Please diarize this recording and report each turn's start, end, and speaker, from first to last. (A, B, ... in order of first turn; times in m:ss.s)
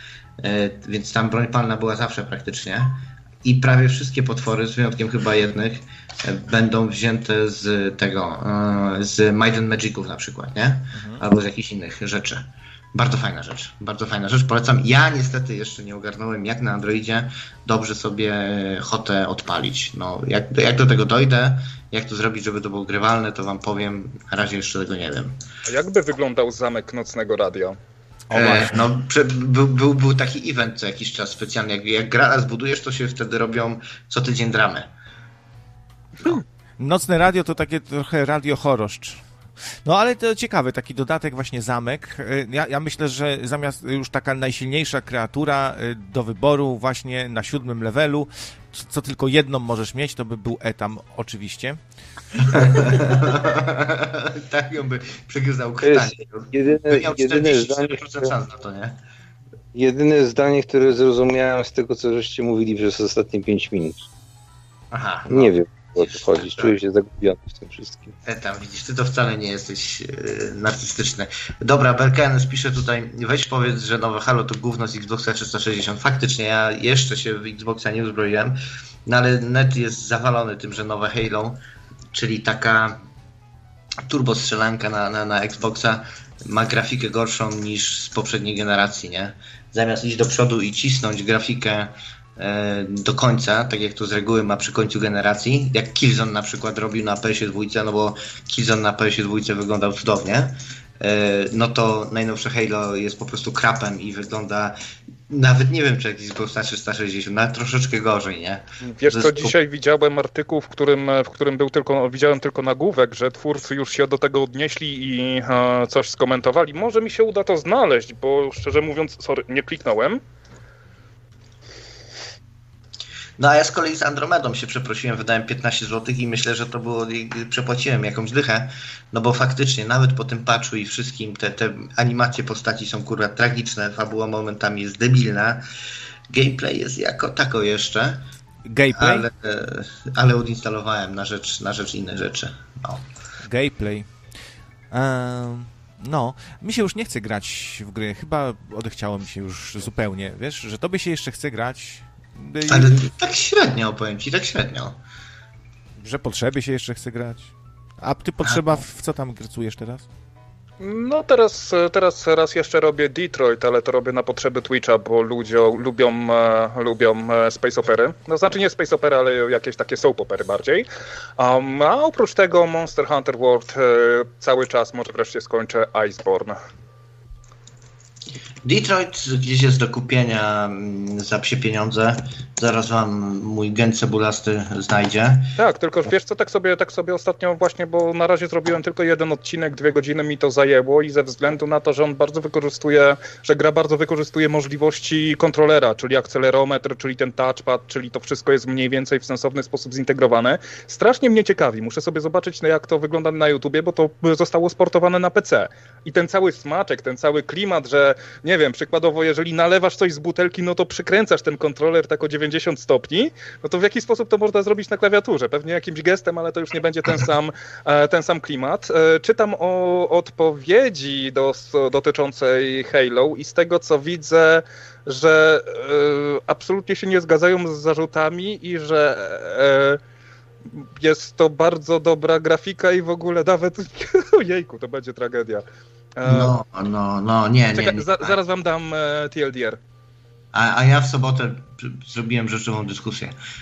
0:00.4-0:25.4 A
0:11.0-0:11.2 B
0:25.7-0:27.8 C
0:28.3-0:28.9 B
0:28.3-0:34.9 A
0:36.8-0:39.2 B
0:39.8-0:51.8 B
0:52.4-0:59.0 A
0:52.5-0:53.1 B
0:55.8-0:58.3 D
0:59.7-1:04.1 D
1:04.9-1:06.8 A
1:05.3-1:08.2 D
1:08.3-1:21.6 A
1:22.1-1:23.0 A
1:24.1-1:44.8 A
1:45.3-1:49.5 A
1:48.9-2:00.2 C
2:03.4-2:15.6 A
2:16.3-2:18.2 A
2:18.7-2:19.3 B
2:19.0-2:23.1 A
2:23.5-2:24.1 B
2:24.9-2:33.1 B
2:32.7-2:35.0 A
2:36.0-2:40.1 B
2:40.8-2:50.9 C
2:51.4-2:56.6 C
2:58.6-3:05.5 A
3:05.6-3:50.0 C
3:50.7-3:55.6 C
3:56.2-3:56.6 C
3:56.2-3:58.4 A
3:57.8-3:59.8 C
4:00.5-4:03.4 A